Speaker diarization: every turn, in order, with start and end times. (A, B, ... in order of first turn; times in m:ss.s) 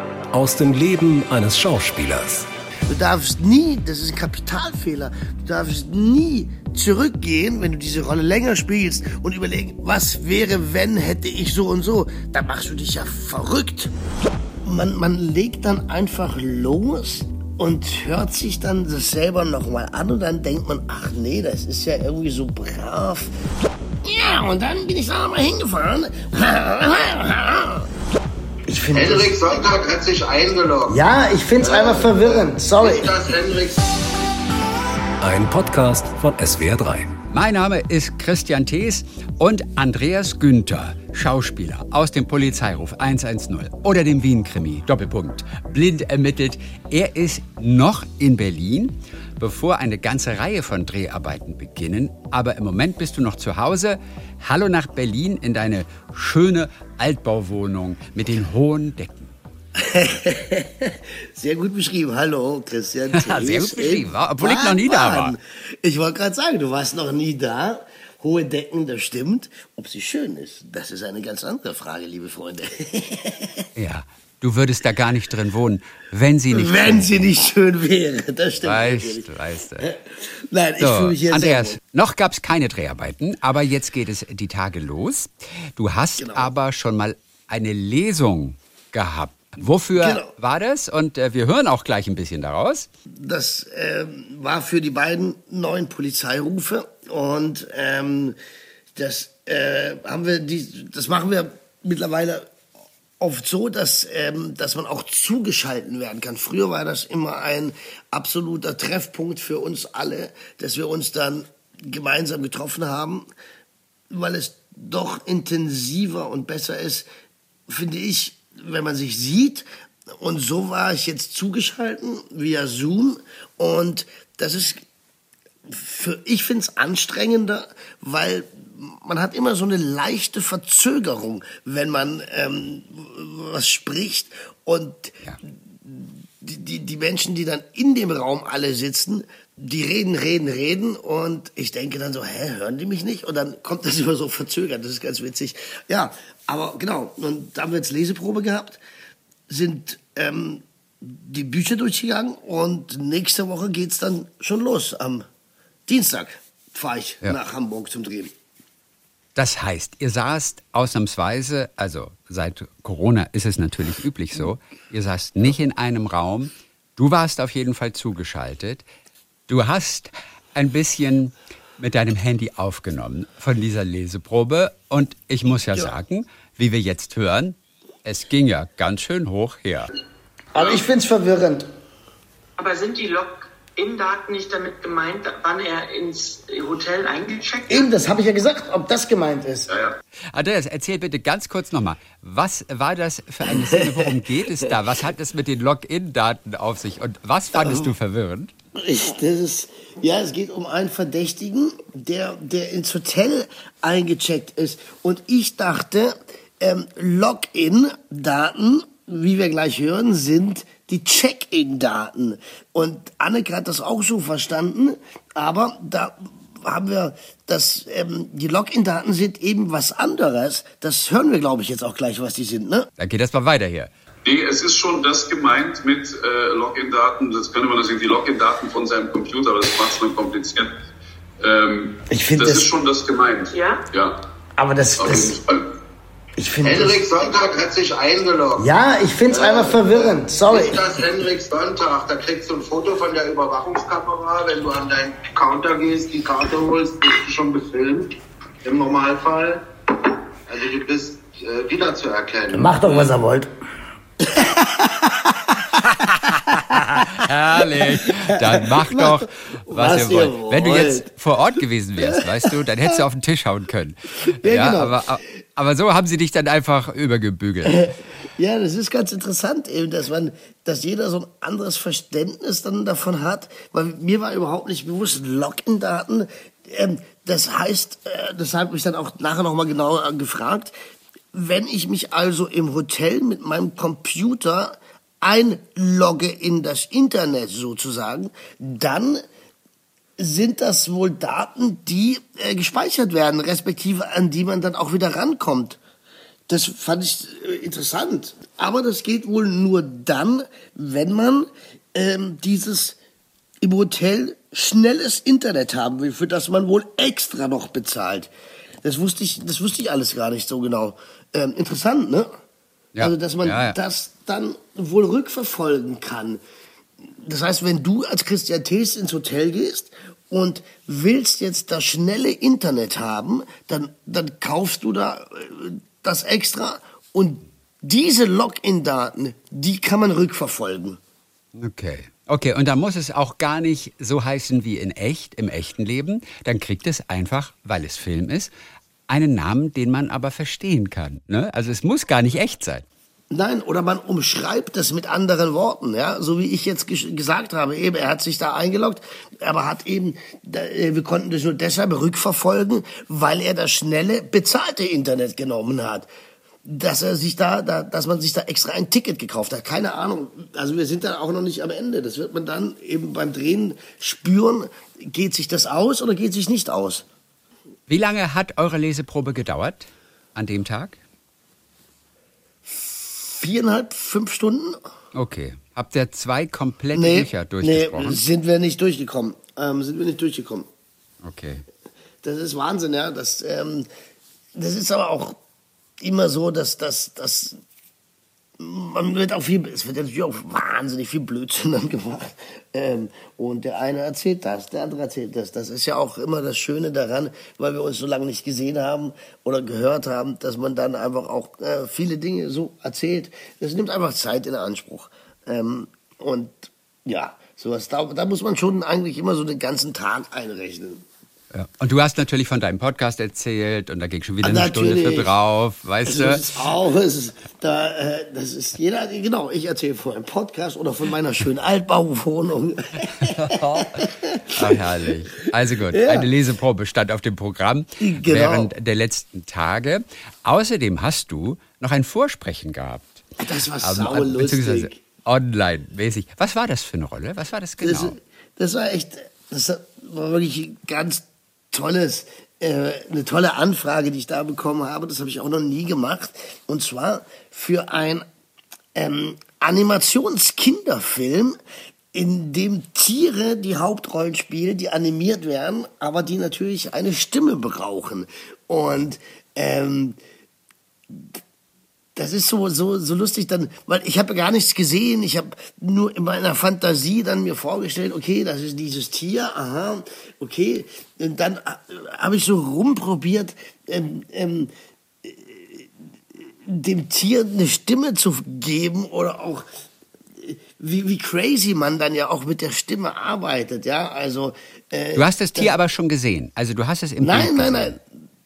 0:00.3-0:02.5 A
0:02.9-0:13.9 B
0:14.6-0:23.3 B
0:24.0-0:27.9 B
0:28.7-0:29.3 B
0:28.9-0:31.1 C
0:30.9-0:33.1 B
0:31.6-0:33.9 C
0:35.2-0:37.2 A
0:37.3-0:59.3 D
0:59.8-1:13.7 B
1:03.1-1:05.4 D
1:13.8-1:17.3 D
1:16.5-1:19.3 B
1:18.6-1:19.9 D
1:19.8-1:21.8 B
1:20.8-1:32.9 D
1:26.2-1:26.5 B
1:30.0-1:30.3 B
1:33.1-1:38.4 B
1:39.0-1:42.5 B
1:43.2-1:53.3 B
1:54.1-1:57.1 B
1:57.7-2:04.8 B
2:05.7-2:28.8 B
2:29.5-2:35.3 B
2:35.9-2:38.3 B
2:39.4-2:48.8 D
2:49.5-2:59.9 D
3:00.6-3:01.7 B
3:02.6-3:08.0 E
3:07.7-3:09.7 B
3:10.3-3:18.5 D
3:13.5-3:13.8 B
3:17.5-3:17.9 B
3:18.8-3:42.9 B
3:43.0-3:43.9 D
3:44.2-3:50.8 F
3:51.4-3:54.2 F
3:52.1-3:52.7 B
3:53.5-3:53.8 E
3:54.6-3:55.4 B
3:55.0-3:55.7 F
3:56.4-3:57.0 B
3:56.6-3:58.7 C
3:58.6-4:00.9 B
3:59.3-4:08.1 C
4:08.6-4:09.6 C
4:10.5-4:12.8 C
4:12.5-4:13.5 B
4:14.2-4:21.1 B
4:17.0-4:27.9 D
4:22.1-4:23.0 B
4:24.4-4:25.0 B
4:27.7-4:40.7 B
4:41.3-4:49.2 B
4:50.2-4:55.8 B
4:56.5-5:03.0 B
5:03.6-5:08.3 B
5:08.8-5:12.3 B
5:13.0-5:13.8 D
5:13.0-5:16.4 B
5:17.2-5:31.0 B
5:31.6-5:38.5 D
5:39.1-5:42.9 D
5:43.3-5:56.1 B
5:56.6-6:07.0 B
6:07.9-6:11.0 D
6:12.7-6:14.8 B
6:15.1-6:18.2 D
6:16.9-6:20.7 B
6:21.2-6:21.6 D
6:22.2-6:23.9 B
6:24.6-6:25.4 B
6:26.0-6:27.6 B
6:28.6-6:51.0 B
6:51.5-6:56.5 D
6:54.4-6:55.3 B
6:56.0-7:04.7 B
7:03.2-7:13.3 D
7:05.9-7:06.3 B
7:08.0-7:08.7 B
7:13.4-7:15.0 B
7:13.8-7:18.2 D
7:17.8-7:28.3 B
7:29.0-7:31.6 B
7:32.1-7:40.2 B
7:41.1-7:41.4 B
7:42.2-7:54.7 B
7:55.2-7:55.9 B
7:56.7-7:59.7 B
8:00.4-8:05.7 B
8:05.2-8:08.0 D
8:07.2-8:08.0 B